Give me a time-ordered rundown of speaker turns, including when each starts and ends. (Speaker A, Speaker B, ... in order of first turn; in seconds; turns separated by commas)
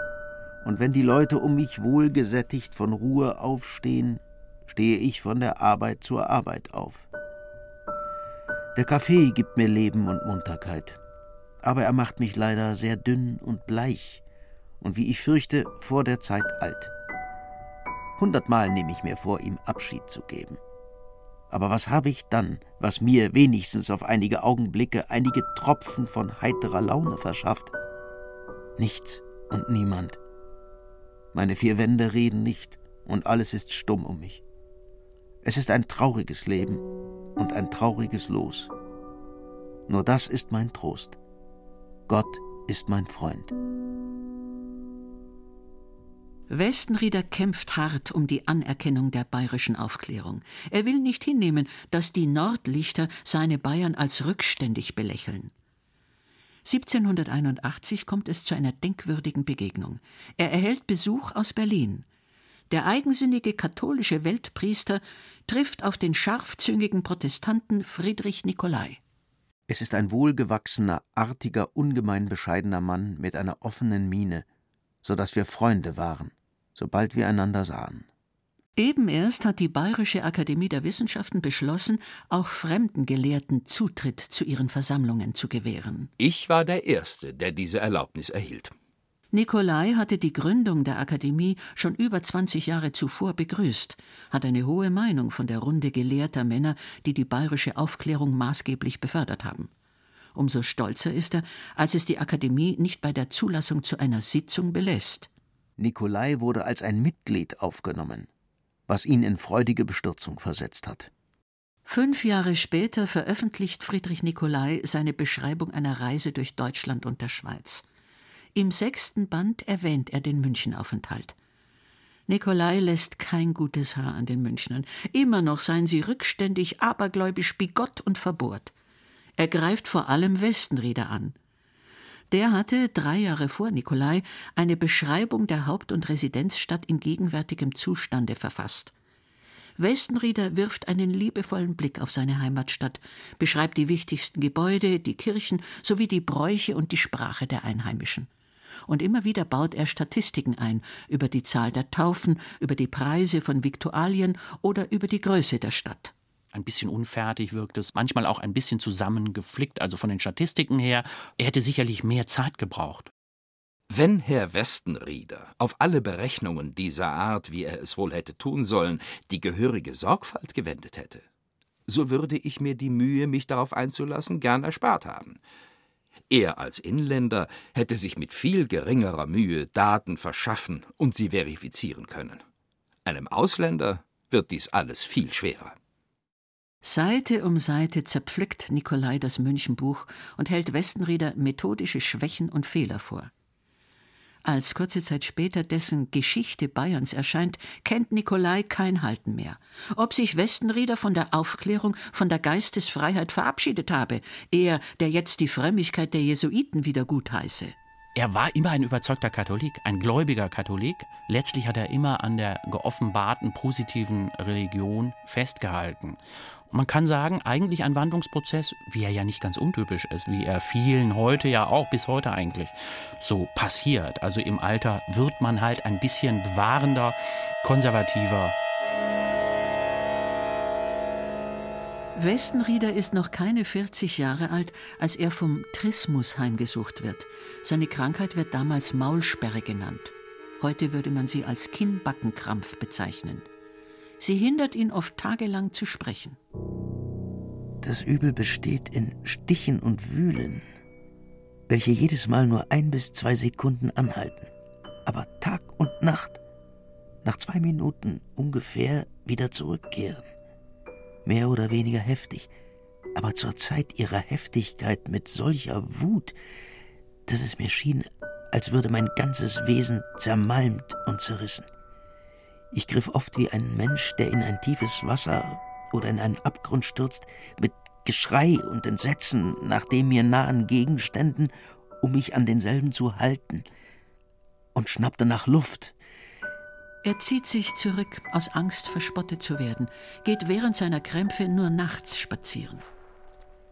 Speaker A: 0.6-7.1, Speaker A: 8.8-11.0, Speaker A: 11.6-14.2, Speaker A: 14.8-16.9, Speaker A: 18.2-20.6, Speaker A: 21.5-27.7, Speaker A: 28.8-30.2, Speaker A: 31.3-34.4, Speaker A: 35.4-36.8, Speaker A: 37.4-38.7, Speaker A: 39.9-41.2, Speaker A: 42.1-43.5, Speaker B: 46.5-55.5, Speaker B: 56.6-62.1, Speaker B: 62.7-69.0, Speaker A: 69.7-74.5, Speaker A: 75.0-78.1, Speaker B: 78.8-86.1, Speaker C: 86.2-88.7, Speaker B: 89.3-99.7, Speaker B: 100.3-105.3, Speaker A: 105.8-108.3, Speaker A: 108.9-111.1, Speaker B: 111.9-117.8, Speaker B: 118.5-121.4, Speaker B: 122.3-128.7, Speaker B: 129.4-131.3, Speaker B: 132.3-138.9, Speaker B: 139.8-148.3, Speaker B: 148.9-156.1, Speaker D: 156.5-163.1, Speaker C: 163.9-171.2, Speaker C: 171.9-175.4, Speaker C: 176.3-182.4, Speaker C: 183.1-185.8, Speaker B: 186.8-193.3, Speaker B: 194.4-207.8, Speaker D: 208.2-216.2, Speaker D: 216.7-228.6, Speaker B: 232.2-243.5, Speaker B: 244.2-246.4, Speaker A: 247.8-250.7, Speaker A: 251.7-254.5, Speaker A: 255.0-256.4, Speaker A: 257.2-260.3, Speaker A: 261.2-262.5, Speaker A: 263.1-266.4, Speaker A: 267.3-271.7, Speaker A: 272.7-283.6, Speaker A: 284.8-286.0, Speaker B: 287.0-292.8